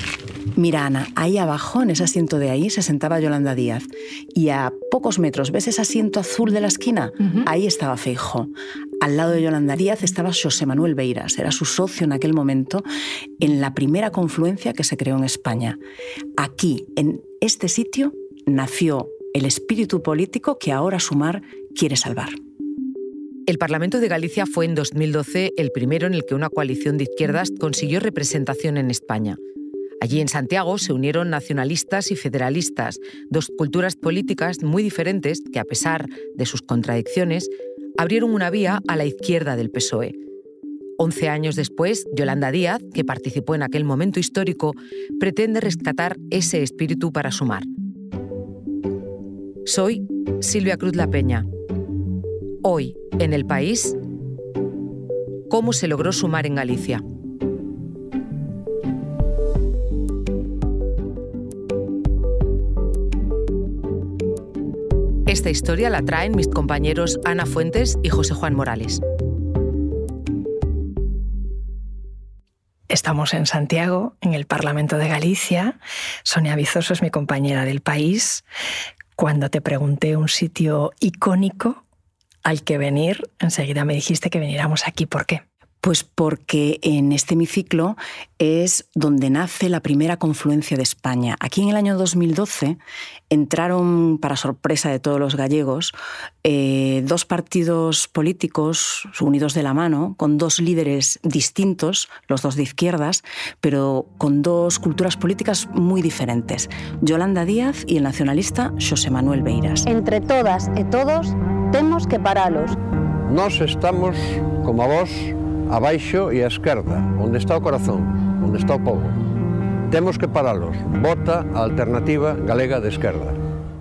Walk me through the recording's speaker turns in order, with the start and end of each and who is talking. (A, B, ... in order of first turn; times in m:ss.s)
0:00.6-0:12.8 A
0:13.4-0:15.8 A
0:16.4-0:22.4 A
0:23.5-0:29.4 B
0:30.0-0:40.2 B
0:41.0-0:47.7 B
0:49.6-0:51.5 B
0:52.6-0:54.0 B
0:55.5-0:57.0 B
1:05.3-1:09.0 B
1:12.9-1:18.4 C
1:19.2-1:21.8 C
1:22.4-1:25.4 C
1:25.8-1:32.8 A
1:33.3-1:49.9 A
1:49.8-1:52.8 D
1:53.2-1:59.2 E
1:59.9-2:03.4 E